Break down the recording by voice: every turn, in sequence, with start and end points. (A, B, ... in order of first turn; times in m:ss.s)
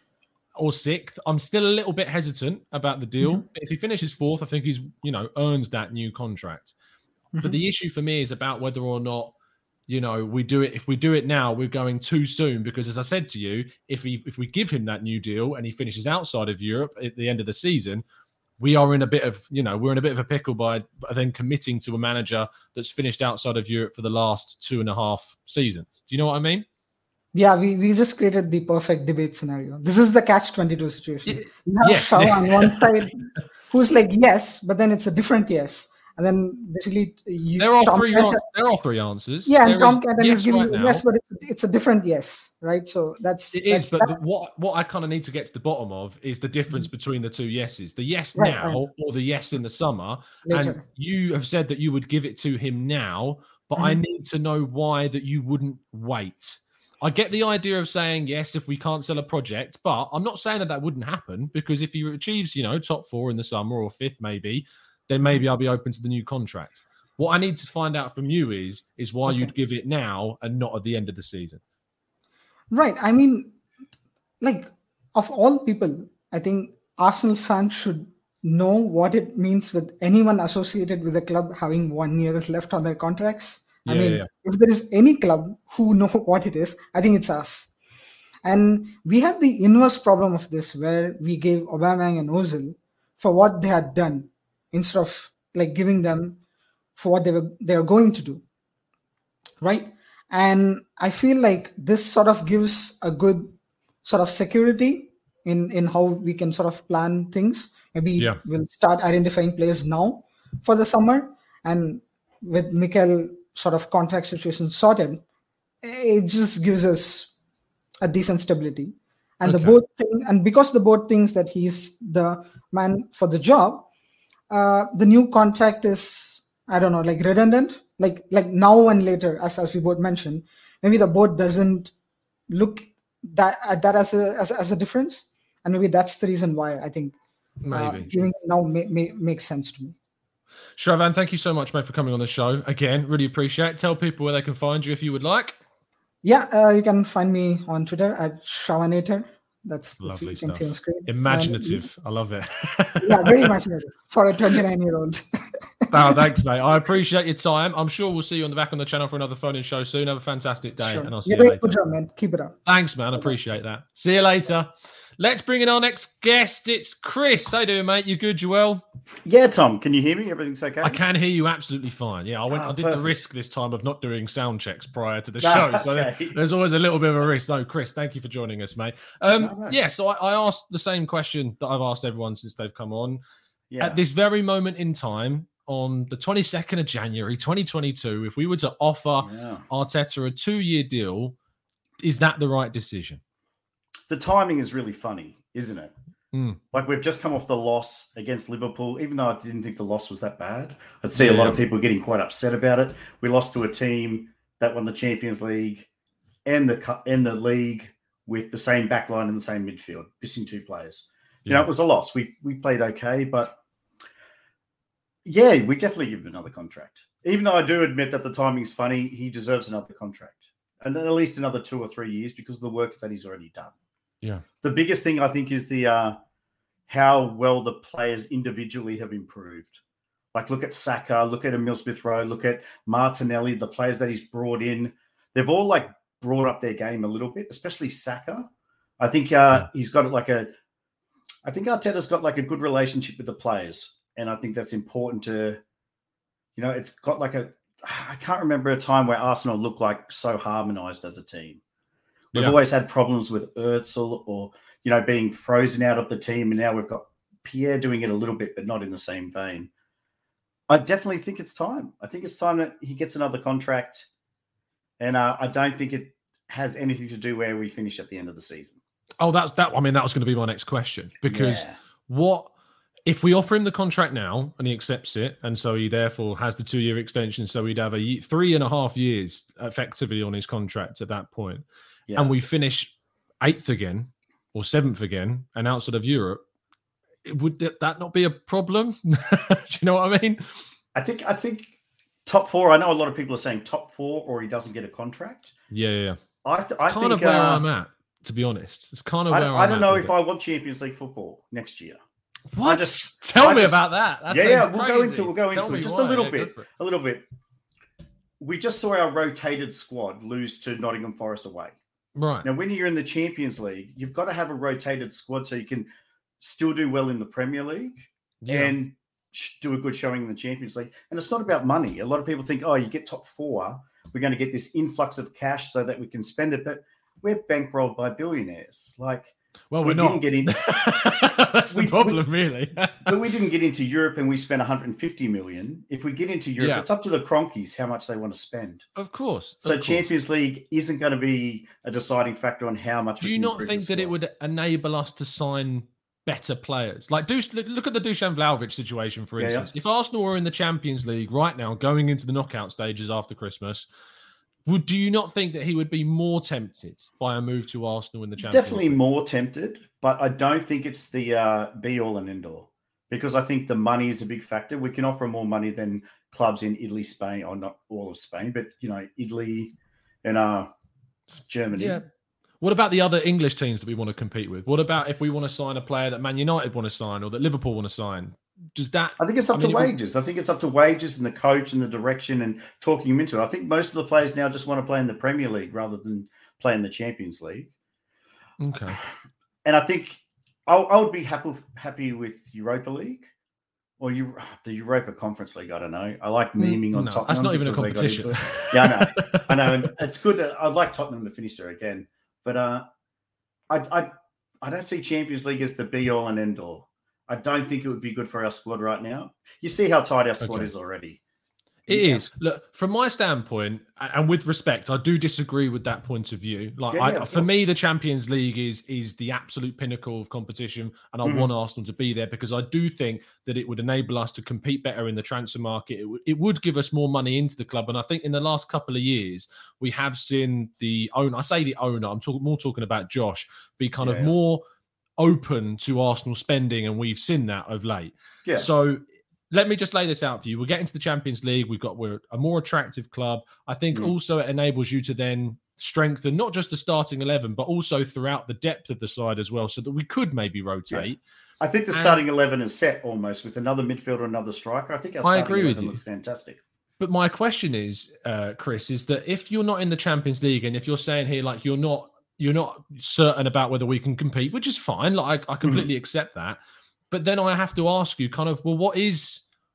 0:00.6-0:06.7 A
0:07.3-0:07.6 B
0:07.4-0:09.3 A
0:09.9-0:18.0 A
0:18.6-0:26.6 A
0:27.3-0:38.4 B
0:31.2-0:32.8 A
0:37.6-0:41.0 A
0:39.4-0:44.2 B
0:43.5-1:11.6 A
0:48.4-0:48.9 B
0:50.4-0:50.8 B
1:09.2-1:09.5 B
1:12.7-1:13.6 B
1:14.4-1:27.7 B
1:23.8-1:24.3 A
1:28.4-1:36.4 B
1:37.0-1:38.4 B
1:39.6-1:55.2 B
1:55.8-1:57.3 B
1:58.0-2:03.9 B
1:59.4-1:59.8 A
2:04.5-2:11.9 B
2:12.5-2:17.2 B
2:17.6-2:18.1 A
2:17.7-2:19.9 B
2:20.8-2:25.6 A
2:26.2-2:31.9 B
2:30.0-2:33.5 A
2:33.0-2:35.2 B
2:35.8-2:36.2 B
2:35.9-2:41.7 A
2:40.8-2:42.6 B
2:42.6-2:48.8 A
2:49.2-2:51.0 C
2:50.8-3:03.2 A
2:52.5-2:53.1 C
2:55.4-2:56.4 C
2:59.4-2:59.8 C
3:03.7-3:04.0 C
3:03.8-3:11.3 A
3:09.2-3:09.6 C
3:12.0-3:13.2 A
3:14.1-3:15.9 C
3:16.3-3:16.6 A
3:16.7-3:25.9 C
3:21.2-3:21.6 A
3:26.4-3:33.6 C
3:35.2-3:43.7 C
3:44.6-3:46.2 C
3:46.9-3:49.8 C
3:50.3-4:00.5 C
4:01.4-4:05.6 C
4:06.6-4:11.6 C
4:12.3-4:19.7 C
4:20.7-4:24.1 C
4:25.0-4:28.8 C
4:29.2-4:32.5 A
4:31.2-4:31.8 C
4:33.0-4:41.6 A
4:42.1-4:42.4 C
4:42.1-4:46.4 A
4:47.2-4:50.5 A
4:50.9-4:51.7 C
4:52.2-4:55.5 C
4:55.7-4:56.2 A
4:56.4-4:57.6 C
4:56.9-5:00.1 A
4:59.3-5:02.0 C
5:02.5-5:06.6 A
5:02.6-5:07.2 C
5:08.4-5:11.8 C
5:12.2-5:12.5 A
5:12.4-5:15.9 C
5:16.4-5:32.2 C
5:18.4-5:18.7 A
5:29.7-5:33.1 A
5:33.0-5:38.8 C
5:36.6-5:36.8 A
5:39.0-5:40.1 A
5:39.6-5:44.1 C
5:43.2-5:53.9 A
5:49.4-5:49.7 C
5:54.6-5:59.0 A
5:58.4-6:10.7 C
6:11.5-6:12.0 C
6:11.7-6:12.0 A
6:12.6-6:19.9 A
6:19.2-6:27.7 C
6:28.6-6:29.0 A
6:29.6-6:33.3 C
6:34.0-6:42.9 C
6:36.6-6:39.6 A
6:43.7-6:51.2 C
6:50.4-6:50.7 A
6:51.9-6:52.3 C
6:51.9-7:14.6 A
6:56.9-6:57.5 C
7:01.2-7:01.5 C
7:14.0-7:14.3 C
7:15.2-7:31.2 A
7:18.4-7:18.7 C
7:31.6-7:36.6 C
7:31.9-7:32.2 A
7:35.2-7:36.0 A
7:37.0-7:46.6 A
7:45.6-7:45.9 C
7:47.1-7:49.4 A